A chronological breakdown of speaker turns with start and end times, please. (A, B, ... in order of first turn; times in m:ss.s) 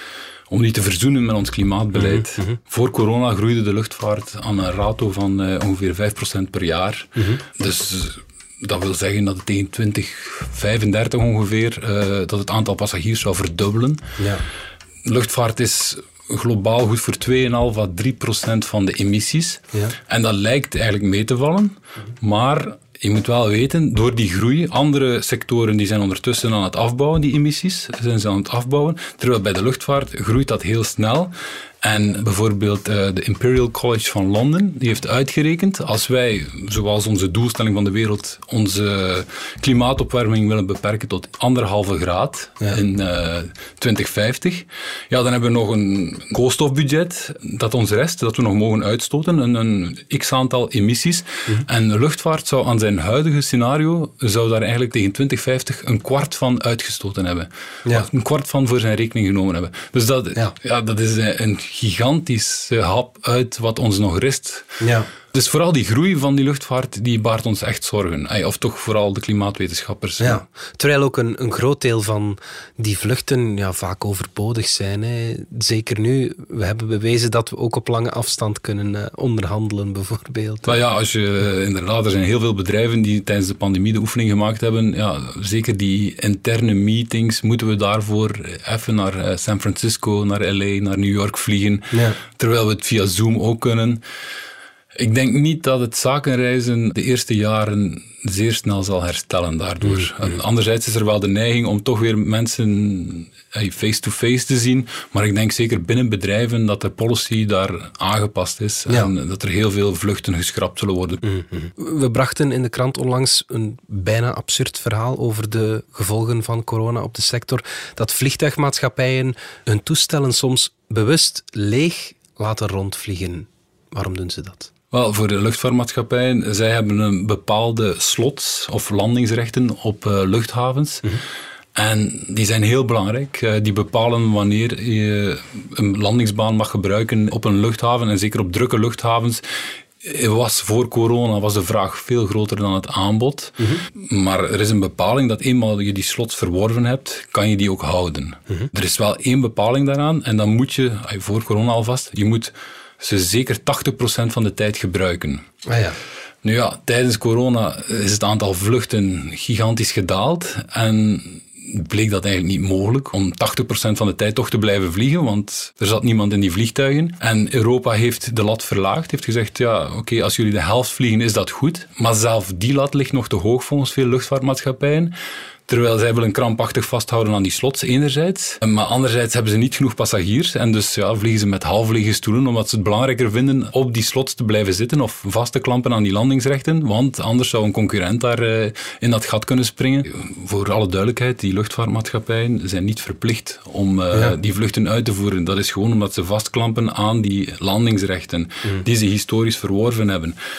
0:00.5-0:14.0 A
0:01.9-0:02.6 B
0:07.2-0:07.4 B
0:14.2-0:14.4 B
0:15.0-1:04.8 A
1:04.8-1:05.1 B
1:05.3-1:10.4 A
1:10.2-1:20.7 B
1:20.6-1:34.0 A
1:31.9-1:32.2 B
1:35.0-1:51.2 A
1:39.8-1:40.1 B
1:51.2-2:04.7 B
2:04.9-2:11.1 A
2:11.7-2:35.4 A
2:23.6-2:23.8 B
2:35.6-2:36.0 B
2:36.4-2:55.1 A
2:55.7-3:20.4 A